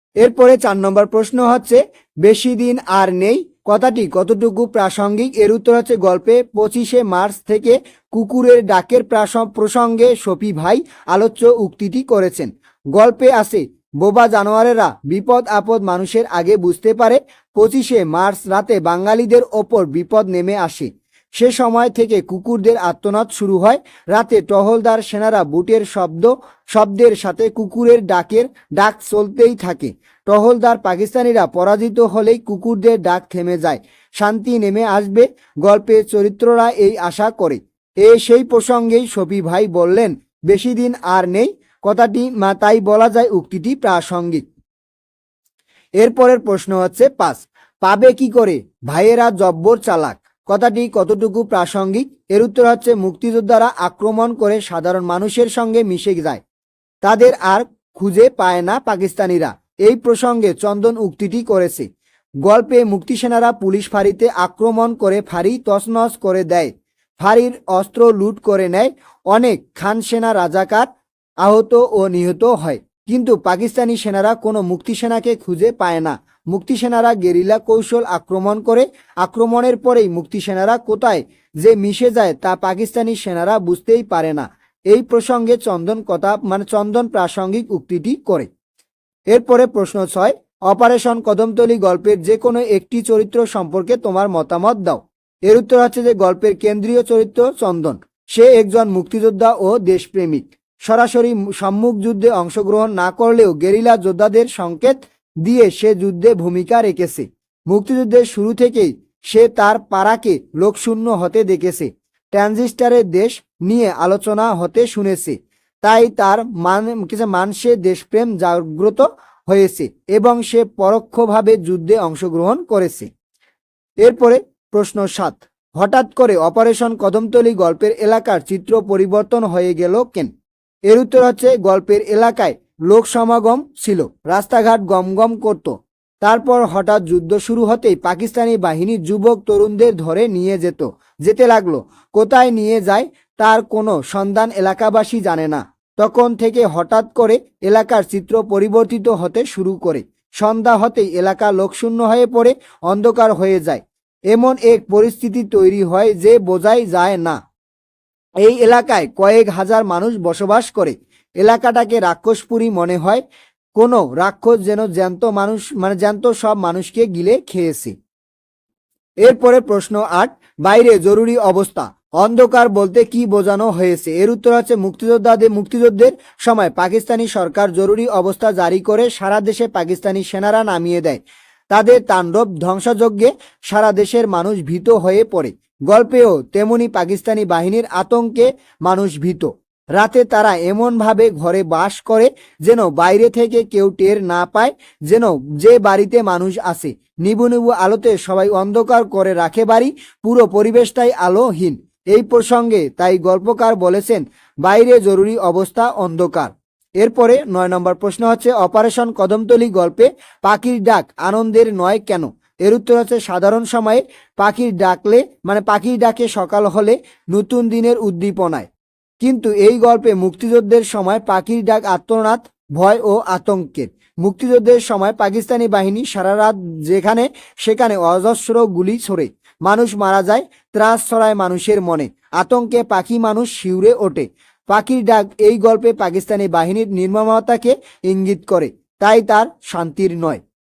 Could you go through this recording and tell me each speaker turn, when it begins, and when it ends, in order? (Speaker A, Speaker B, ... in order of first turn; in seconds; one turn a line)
Speaker A: 0.2-44.4
Speaker A: 46.0-56.4
Speaker A: 57.0-61.9
Speaker A: 62.4-70.9
Speaker A: 71.4-88.5
Speaker A: 89.3-123.1
Speaker A: 124.0-130.3
Speaker A: 130.9-157.4
Speaker A: 158.4-163.2
Speaker A: 163.8-167.9
Speaker A: 169.2-218.7
Speaker A: 219.2-240.4